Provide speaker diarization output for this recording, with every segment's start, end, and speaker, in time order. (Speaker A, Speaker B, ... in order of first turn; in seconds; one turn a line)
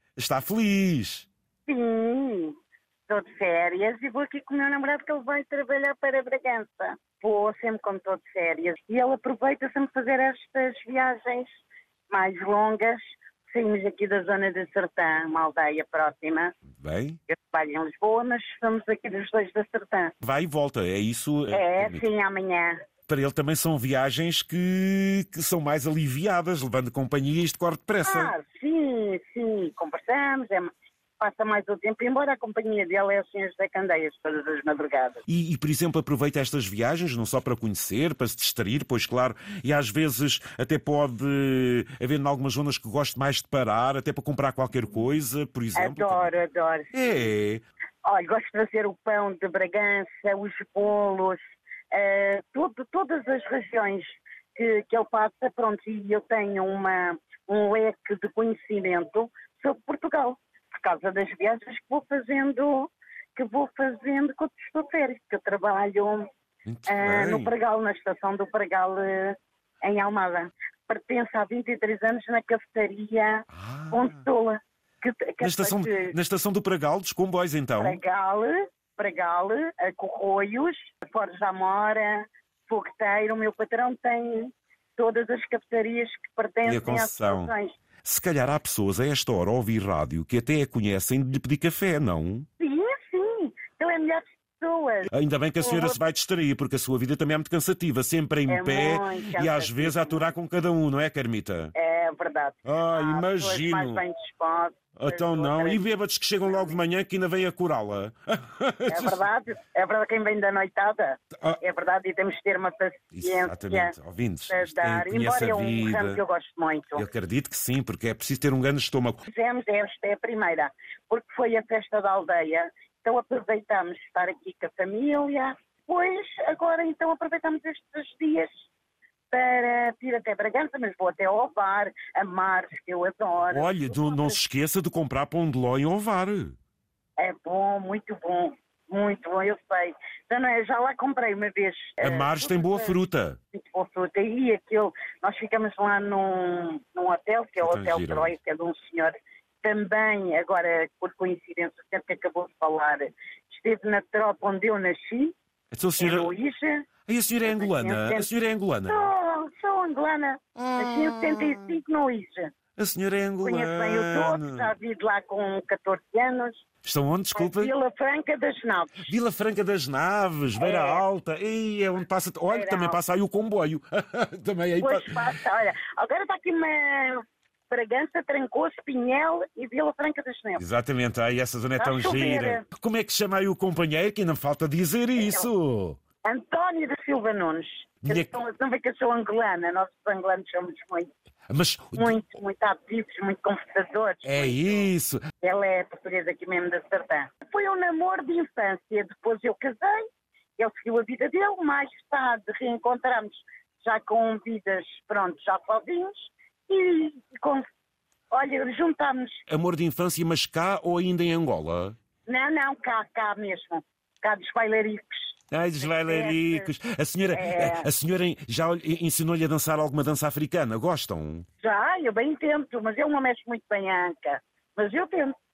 Speaker A: 0.2-1.3
Speaker B: 1.7-2.6
Speaker B: 3.1-16.5
Speaker A: 16.8-17.2
Speaker B: 17.3-20.1
Speaker A: 20.2-22.1
Speaker B: 21.5-22.8
Speaker A: 23.1-28.3
Speaker B: 28.0-35.2
Speaker A: 35.3-46.3
Speaker B: 45.8-47.3
Speaker A: 46.9-47.6
Speaker B: 48.0-51.4
Speaker B: 51.9-66.3
Speaker A: 66.7-67.5
Speaker B: 66.9-76.1
Speaker A: 73.5-74.2
Speaker A: 75.4-78.0
Speaker B: 77.8-87.7
Speaker A: 86.7-87.5
Speaker A: 88.0-92.5
Speaker B: 92.6-95.1
Speaker A: 95.1-101.7
Speaker B: 95.6-96.0
Speaker B: 98.5-100.3
Speaker B: 101.8-105.9
Speaker A: 102.7-104.0
Speaker A: 105.0-109.2
Speaker B: 106.5-106.8
Speaker B: 108.9-114.0
Speaker A: 113.2-116.2
Speaker B: 114.5-117.1
Speaker A: 117.0-119.3
Speaker B: 119.3-128.5
Speaker B: 129.3-134.4
Speaker A: 133.4-136.6
Speaker B: 137.2-143.0
Speaker A: 142.0-143.4
Speaker B: 143.5-155.3
Speaker A: 147.6-148.3
Speaker A: 155.7-156.3
Speaker B: 156.0-156.9
Speaker A: 157.1-159.1
Speaker B: 157.4-158.3
Speaker B: 158.9-162.5
Speaker A: 160.6-161.7
Speaker A: 162.8-164.7
Speaker B: 163.4-166.6
Speaker A: 166.8-167.7
Speaker B: 167.3-169.1
Speaker A: 169.1-175.2
Speaker B: 170.6-171.0
Speaker B: 172.5-173.0
Speaker B: 174.8-180.6
Speaker A: 180.6-186.0
Speaker B: 181.8-182.6
Speaker B: 185.2-185.5
Speaker B: 186.2-191.1
Speaker A: 188.0-188.3
Speaker A: 191.5-192.2
Speaker B: 191.9-194.9
Speaker A: 194.2-195.2
Speaker B: 195.4-200.0
Speaker B: 200.6-207.7
Speaker B: 208.3-209.4
Speaker A: 209.5-212.0
Speaker B: 212.3-216.7
Speaker A: 215.5-221.5
Speaker B: 217.3-217.9
Speaker B: 221.6-225.3